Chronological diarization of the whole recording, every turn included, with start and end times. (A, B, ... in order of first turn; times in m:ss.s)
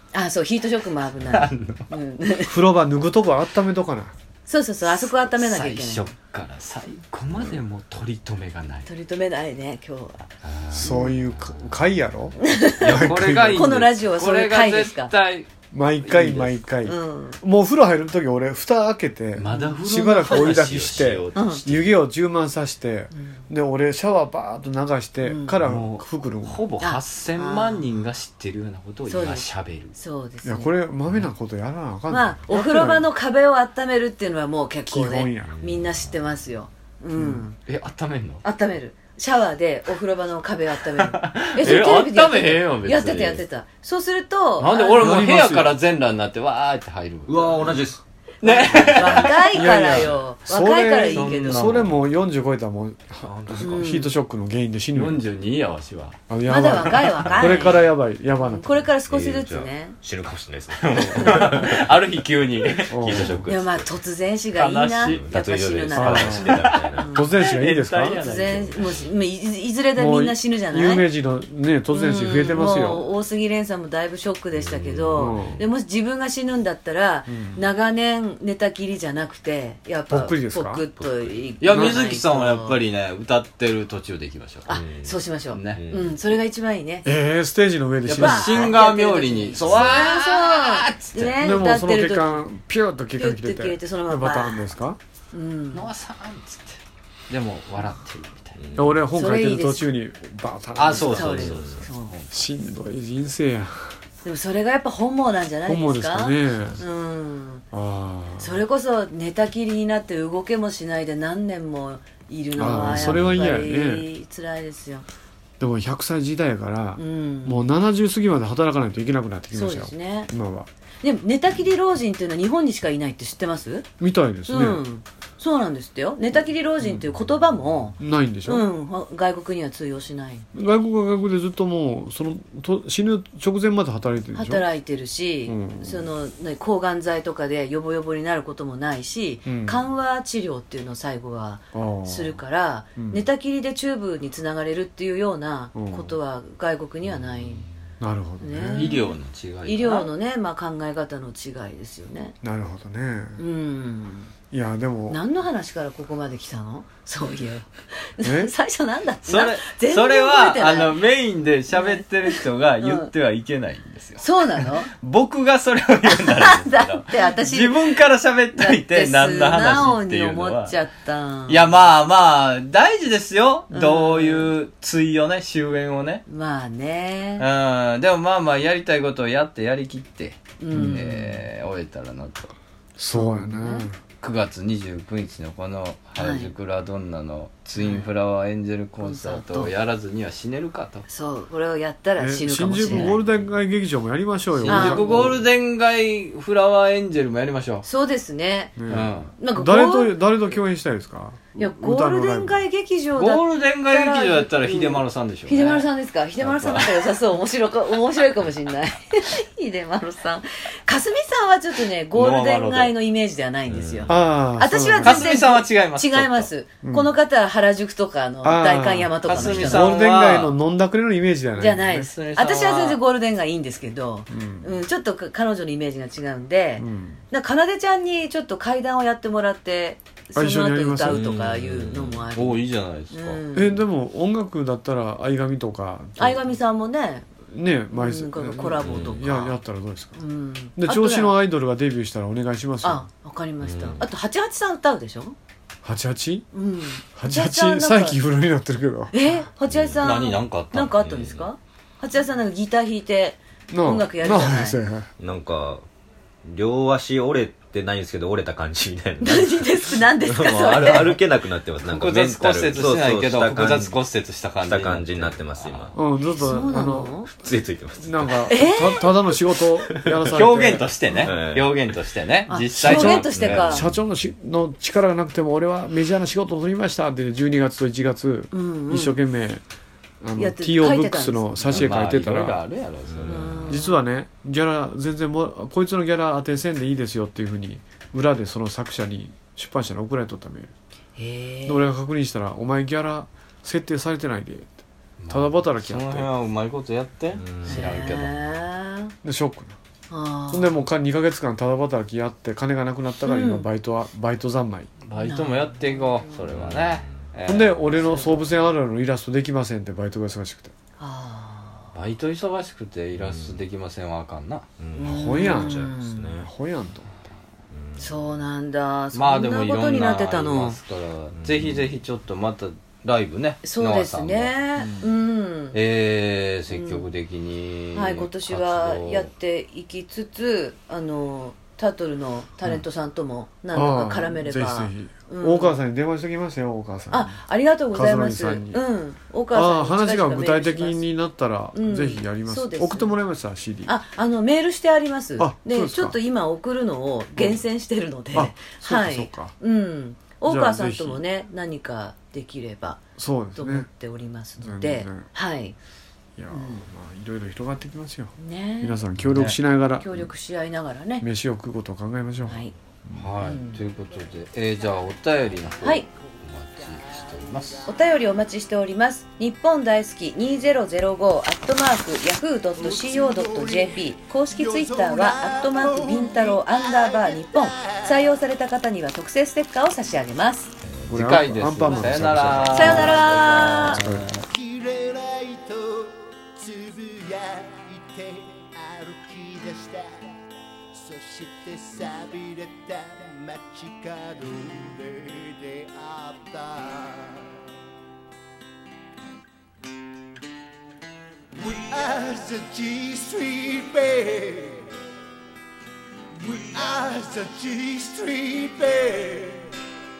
0:00.1-0:02.5 A
0:01.2-0:01.8 B
0:02.5-0:04.1 C
0:04.5-0:06.1 A
0:05.0-0:08.9 B
0:08.8-0:10.3 A
0:10.4-0:10.9 B
0:10.7-0:13.9 C
0:10.8-0:11.1 A
0:12.4-0:15.1 A
0:12.8-0:15.5 B
0:15.7-0:26.6 C
0:16.0-0:16.6 B
0:16.8-0:17.4 A
0:19.4-0:21.8 B
0:20.5-0:21.9 D
0:23.1-0:23.4 A
0:25.2-0:25.6 A
0:25.6-0:29.9 B
0:26.8-0:27.8 A
0:29.1-0:30.7 A
0:30.4-0:33.0 C
0:32.1-0:37.6 A
0:34.9-0:35.5 C
0:35.5-0:35.9 D
0:37.2-0:37.4 C
0:37.7-0:38.4 B
0:38.4-0:45.2 A
0:41.0-0:43.4 B
0:44.6-0:47.7 B
0:44.9-0:45.8 C
0:47.3-0:48.0 D
0:48.4-0:49.3 B
0:48.4-0:51.7 A
0:48.7-0:49.3 D
0:49.2-0:55.2 C
0:51.1-0:51.9 B
0:53.2-0:53.8 D
0:53.6-0:54.1 A
0:54.9-0:56.2 B
0:56.3-0:58.8 C
0:56.5-1:00.0 A
0:57.3-0:57.6 D
0:59.1-1:03.9 D
1:00.8-1:03.3 B
1:02.9-1:03.4 C
1:03.5-1:07.3 A
1:04.5-1:05.2 B
1:05.0-1:07.1 D
1:05.9-1:08.2 C
1:06.4-1:08.9 B
1:08.2-1:11.1 A
1:08.4-1:09.1 D
1:10.0-1:13.1 C
1:11.9-1:22.8 A
1:14.6-1:15.6 D
1:15.2-1:15.6 C
1:17.3-1:17.6 C
1:20.1-1:20.8 C
1:21.0-1:21.4 D
1:21.6-1:24.7 B
1:21.7-1:22.0 C
1:24.6-1:27.1 A
1:24.7-1:25.2 D
1:25.5-1:25.8 B
1:25.7-1:26.1 D
1:27.0-1:28.7 C
1:28.1-1:31.3 B
1:28.1-1:32.4 A
1:29.6-1:30.0 D
1:31.2-1:35.0 C
1:33.2-1:34.7 A
1:35.3-1:35.8 A
1:35.7-1:36.8 B
1:37.3-1:38.6 B
1:38.6-1:39.0 D
1:38.8-1:41.6 C
1:39.1-1:39.9 A
1:40.8-1:42.3 B
1:40.9-1:42.1 A
1:41.4-1:41.8 D
1:42.3-1:43.9 C
1:44.2-1:47.6 A
1:45.6-1:46.8 C
1:47.7-1:48.6 C
1:48.4-1:55.0 A
1:52.6-1:54.1 C
1:52.9-1:53.4 D
1:55.6-2:00.7 C
1:57.0-1:57.6 A
1:59.5-2:00.3 A
2:01.0-2:03.9 A
2:04.0-2:04.8 C
2:04.5-2:10.4 A
2:08.0-2:08.7 C
2:10.5-2:14.7 C
2:14.3-2:27.7 A
2:15.5-2:16.1 C
2:19.4-2:19.8 C
2:21.7-2:22.4 C
2:23.0-2:23.3 C
2:25.7-2:26.2 C
2:28.0-2:28.9 C
2:28.4-2:32.3 A
2:28.8-2:30.1 B
2:32.4-2:33.4 C
2:33.4-2:34.3 A
2:34.5-2:35.2 C
2:35.1-2:41.0 A
2:38.2-2:38.5 C
2:39.2-2:50.8 B
2:41.7-2:43.1 A
2:44.2-2:44.9 A
2:46.1-2:48.0 A
2:48.6-2:51.7 A
2:51.5-2:56.2 B
2:53.7-2:54.5 A
2:56.3-2:57.4 A
2:57.4-3:02.5 B
3:00.6-3:01.4 A
3:00.7-3:01.0 C
3:03.0-3:04.0 C
3:03.1-3:03.9 A
3:04.2-3:11.0 B
3:06.2-3:06.5 A
3:07.8-3:08.1 A
3:09.0-3:09.7 A
3:11.1-3:13.2 A
3:12.2-3:15.4 C
3:14.6-3:17.8 B
3:14.7-3:15.3 A
3:17.8-3:18.8 A
3:18.8-3:22.6 C
3:18.9-3:19.3 B
3:19.4-3:20.1 A
3:21.6-3:40.0 A
3:23.2-3:25.8 B
3:26.4-3:27.0 B
3:32.1-3:32.9 B
3:33.7-3:34.3 D
3:34.1-3:35.3 C
3:35.0-3:36.5 B
3:36.8-3:37.1 C
3:38.4-3:42.1 C
3:39.2-3:40.5 B
3:41.6-3:53.8 A
3:42.1-3:43.0 B
3:44.3-3:44.7 C
3:46.8-3:47.2 C
3:50.3-3:51.2 C
3:51.1-3:52.2 D
3:52.3-3:53.4 B
3:53.5-3:56.6 C
3:56.2-3:57.2 A
3:57.5-4:00.2 C
3:57.9-3:59.6 A
3:58.8-3:59.2 D
4:00.2-4:01.4 A
4:00.8-4:03.1 C
4:02.8-4:05.4 A
4:03.6-4:04.0 D
4:05.8-4:06.5 C
4:06.5-4:08.2 A
4:07.2-4:09.1 C
4:09.1-4:14.8 A
4:09.7-4:10.0 D
4:10.0-4:11.3 B
4:11.0-4:11.4 D
4:13.7-4:15.1 C
4:15.2-4:15.8 D
4:16.4-4:24.0 D
4:19.2-4:21.2 A
4:20.7-4:21.0 B
4:21.8-4:25.9 B
4:24.6-4:26.0 D
4:25.9-4:27.2 C
4:26.4-4:27.3 A
4:26.8-4:28.6 D
4:28.0-4:30.9 C
4:28.5-4:29.1 A
4:30.3-4:33.8 B
4:31.2-4:32.0 D
4:32.5-4:33.8 A
4:32.8-4:39.6 C
4:32.9-4:34.0 D
4:38.5-4:39.2 A
4:40.2-4:42.6 C
4:40.4-4:41.9 A
4:41.7-4:43.7 B
4:43.1-4:43.5 D
4:43.3-4:44.0 A
4:43.7-4:50.7 C
4:51.2-4:51.9 A
4:51.6-4:56.3 C
4:55.2-4:58.3 B
4:57.4-4:57.9 D
4:57.6-4:59.1 A
4:59.2-4:59.7 C
5:00.1-5:00.8 A
5:00.5-5:04.9 C
5:03.2-5:03.7 A
5:05.1-5:08.2 B
5:05.2-5:06.1 A
5:06.5-5:07.2 D
5:07.4-5:10.7 C
5:11.0-5:11.9 A
5:11.9-5:14.6 B
5:13.1-5:13.6 D
5:14.8-5:16.5 D
5:14.9-5:16.3 A
5:15.0-5:17.1 C
5:17.7-5:18.4 D
5:18.0-5:20.8 A
5:19.1-5:24.5 B
5:21.3-5:21.9 D
5:23.6-5:25.8 A
5:24.8-5:25.1 C
5:25.7-5:29.3 B
5:26.7-5:27.0 A
5:27.9-5:35.8 A
5:33.7-5:37.4 C
5:37.1-5:41.0 A
5:37.9-5:38.8 C
5:39.5-5:43.9 C
5:41.7-5:43.1 A
5:43.8-5:53.0 A
5:45.4-5:46.2 C
5:47.4-5:47.6 C
5:48.3-5:49.5 C
5:50.4-5:51.2 C
5:53.2-5:53.9 C
5:53.6-5:55.8 A
5:54.6-5:55.3 C
5:56.4-6:00.2 C
5:56.5-5:56.8 A
5:58.4-5:59.0 A
6:00.0-6:01.2 A
6:01.2-6:03.3 C
6:02.5-6:02.7 A
6:03.2-6:07.9 B
6:03.4-6:03.8 A
6:05.8-6:06.1 A
6:06.1-6:08.1 E
6:07.9-6:20.7 A
6:12.8-6:18.4 E
6:21.0-6:24.3 B
6:21.1-6:24.4 C
6:22.7-6:24.0 A
6:24.4-6:30.4 E
6:30.9-6:37.6 E
6:41.5-6:44.9 E
6:46.3-6:49.7 E